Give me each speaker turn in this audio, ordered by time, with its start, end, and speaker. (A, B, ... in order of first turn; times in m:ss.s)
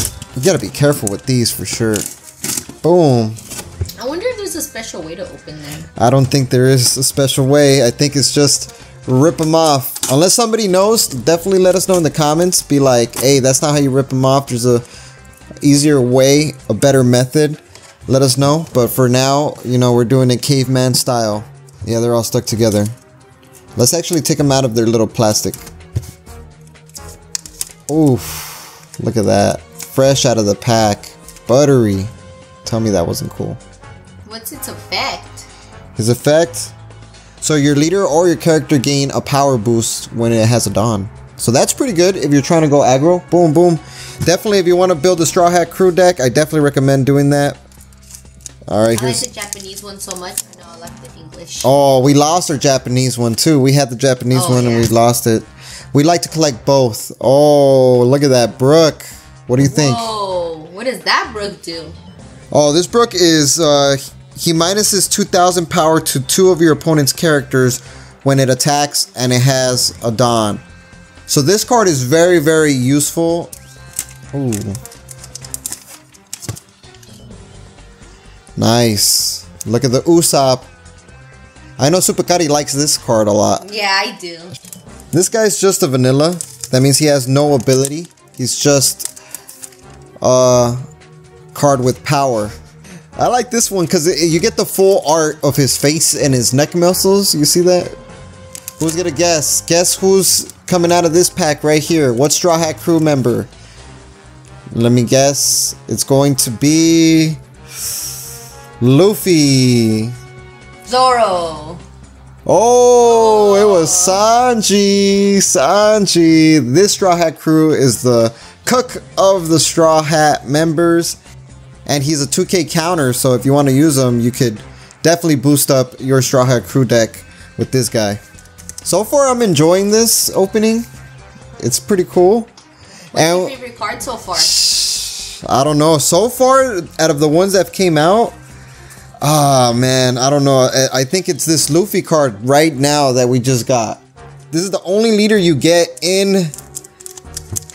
0:00.4-0:02.0 A
0:02.8-0:03.4 A
0:04.0-0:05.9 B
0:06.0-0:14.8 A
0:15.6-0:22.9 A
0:23.8-0:25.6 A
0:27.9-0:32.1 A
0:32.6-0:33.6 A
0:34.2-0:35.5 B
0:36.0-0:36.7 A
0:37.4-0:47.6 A
0:48.7-0:49.2 A
0:48.9-0:51.7 B
0:51.6-1:00.1 A
0:54.3-0:54.9 B
0:59.6-1:02.0 B
1:02.5-1:10.6 A
1:11.3-1:13.5 A
1:14.3-1:14.8 A
1:18.6-1:20.7 A
1:21.8-1:23.6 A
1:23.6-1:24.5 B
1:25.1-1:29.1 A
1:30.2-1:30.8 A
1:31.5-1:32.5 A
1:33.2-1:37.9 A
1:38.8-1:43.5 A
1:44.7-1:47.4 A
1:48.8-1:50.1 A
1:50.8-1:51.8 B
1:52.4-2:01.2 A
1:53.0-1:54.3 B
2:01.8-2:08.2 A
2:08.8-2:10.9 A
2:11.6-2:12.5 A
2:13.1-2:13.5 A
2:13.1-2:14.5 B
2:14.4-2:18.4 A
2:19.2-2:26.5 A